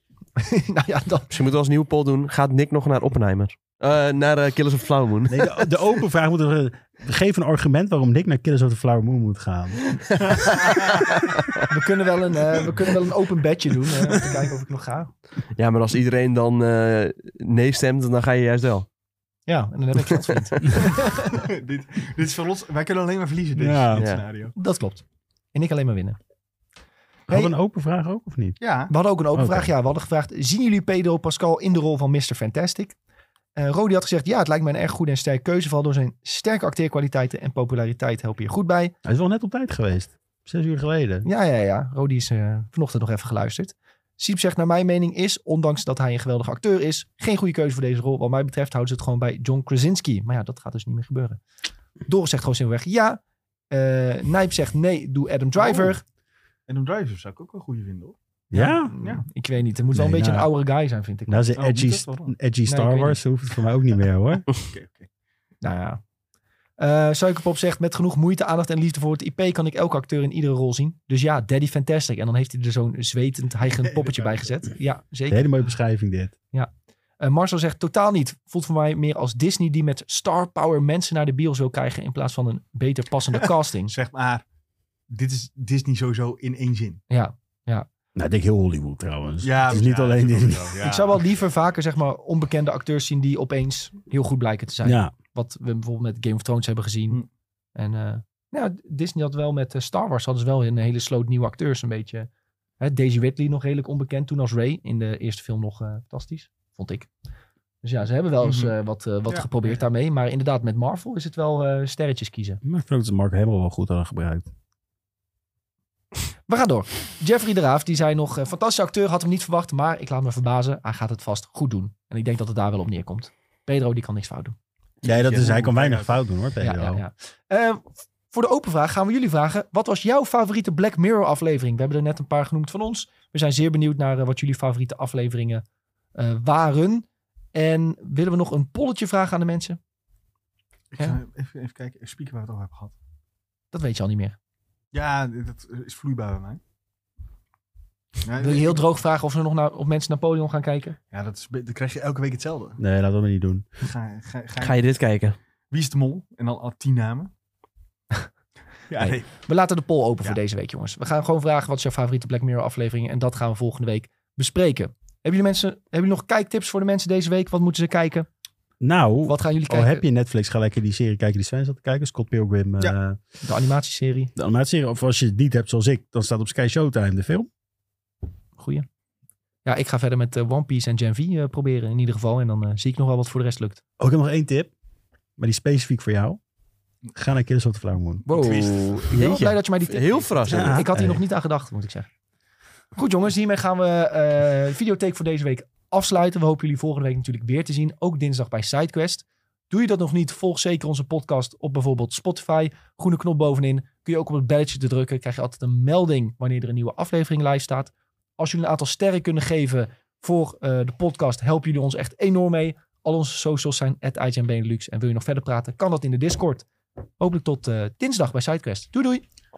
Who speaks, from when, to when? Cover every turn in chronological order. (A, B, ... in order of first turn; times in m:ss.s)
0:00.4-0:01.3 A
0:01.3-0:05.6 B
0:05.3-0:10.3 C
0:10.9-0:11.3 B
0:11.7-0:15.1 A
0:15.6-0:18.9 B
0:19.5-0:21.4 A
0:21.3-0:24.5 D
0:23.6-0:24.1 C
0:24.6-0:26.2 A
0:27.3-0:28.6 C
0:27.3-0:27.5 A
0:28.6-0:28.9 D
0:28.9-0:33.0 A
0:29.3-0:29.7 C
0:33.6-0:38.9 A
0:39.0-0:41.3 C
0:41.2-0:51.4 A
0:52.1-0:56.0 A
0:56.7-0:58.2 D
0:58.5-0:58.9 C
0:58.5-1:01.6 A
0:58.9-0:59.2 D
1:00.0-1:00.5 C
1:01.3-1:04.5 C
1:01.6-1:02.3 D
1:02.7-1:03.2 A
1:04.5-1:05.1 D
1:05.6-1:06.0 A
1:06.8-1:15.5 A
1:13.7-1:14.4 D
1:15.3-1:16.3 C
1:16.5-1:23.9 A
1:23.9-1:24.4 D
1:25.1-1:27.0 D
1:27.1-1:27.9 A
1:28.2-1:30.7 C
1:29.4-1:31.2 D
1:30.8-1:37.2 A
1:34.8-1:35.1 C
1:37.8-1:47.1 A
1:47.8-1:52.6 A
1:48.4-1:48.8 D
1:49.3-1:49.8 D
1:52.6-1:54.5 C
1:56.5-2:04.6 A
2:05.0-2:07.0 C
2:05.1-2:06.2 D
2:06.6-2:15.6 A
2:16.2-2:19.8 A
2:20.9-2:23.0 D
2:23.7-2:24.4 A
2:24.9-2:26.6 D
2:28.2-2:28.8 D
2:28.4-2:31.0 A
2:31.1-2:32.8 D
2:32.8-2:33.7 C
2:33.8-2:34.8 D
2:34.6-2:35.4 B
2:35.7-2:37.3 D
2:38.9-2:39.3 D
2:39.0-2:48.3 A
2:48.8-2:53.2 C
2:49.2-2:50.0 A
2:53.4-2:54.3 A
2:54.4-2:57.5 C
2:58.6-2:58.8 A
2:59.6-3:03.8 A
3:04.0-3:04.7 C
3:05.4-3:06.4 C
3:07.1-3:08.3 C
3:08.3-3:10.9 B
3:08.3-3:12.1 A
3:08.3-3:09.0 D
3:09.1-3:09.5 C
3:10.5-3:11.2 C
3:13.0-3:36.7 A
3:37.2-3:39.2 A